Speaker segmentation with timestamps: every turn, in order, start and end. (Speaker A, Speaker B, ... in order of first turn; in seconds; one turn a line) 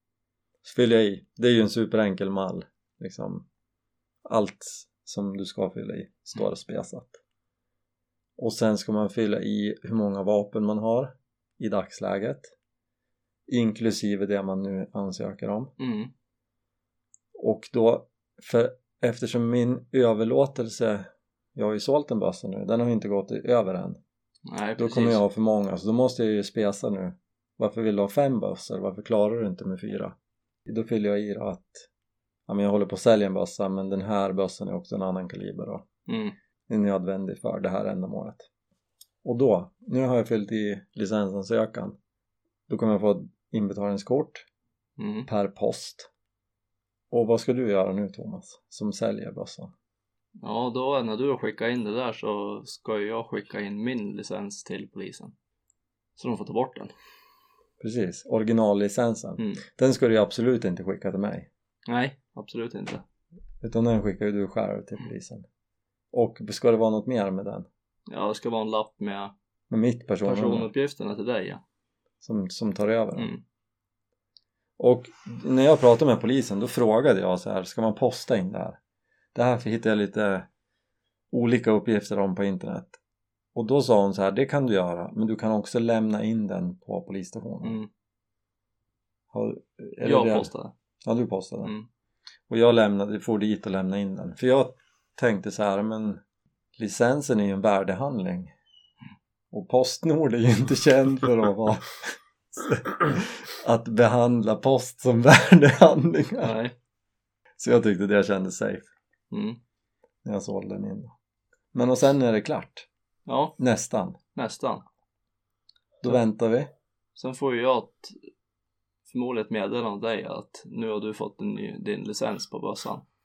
Speaker A: 0.6-3.5
Speaker A: 4.2-7.2
Speaker A: 8.4-12.5
Speaker A: 13.5-15.7
Speaker B: 15.8-16.1
Speaker A: 17.4-24.0
Speaker B: 24.5-25.2
Speaker A: 24.8-30.1
Speaker A: 30.7-31.9
Speaker A: 32.5-35.9
Speaker B: 36.1-36.3
Speaker A: 36.7-38.5
Speaker A: 39.2-42.0
Speaker A: 42.7-44.5
Speaker B: 45.0-45.3
Speaker A: 45.3-46.1
Speaker A: 47.1-49.7
Speaker B: 50.4-55.3
Speaker B: 56.2-56.9
Speaker A: 57.8-61.5
Speaker B: 61.9-63.0
Speaker A: 63.6-65.5
Speaker A: 66.1-67.7
Speaker B: 68.1-69.3
Speaker A: 69.7-70.7
Speaker B: 70.2-71.6
Speaker A: 72.2-73.3
Speaker A: 74.8-78.8
Speaker A: 79.3-80.5
Speaker A: 81.3-83.0
Speaker A: 83.5-87.8
Speaker B: 87.6-87.9
Speaker A: 89.3-90.5
Speaker B: 90.0-90.7
Speaker A: 91.0-91.7
Speaker A: 92.5-96.2
Speaker A: 96.8-98.5
Speaker A: 99.5-106.5
Speaker B: 106.4-106.7
Speaker A: 107.6-108.9
Speaker B: 109.3-109.6
Speaker A: 110.2-111.1
Speaker A: 111.7-112.9
Speaker B: 113.2-113.5
Speaker A: 113.6-114.2
Speaker B: 114.3-114.8
Speaker A: 116.0-116.7
Speaker B: 117.2-118.2
Speaker B: 119.1-123.0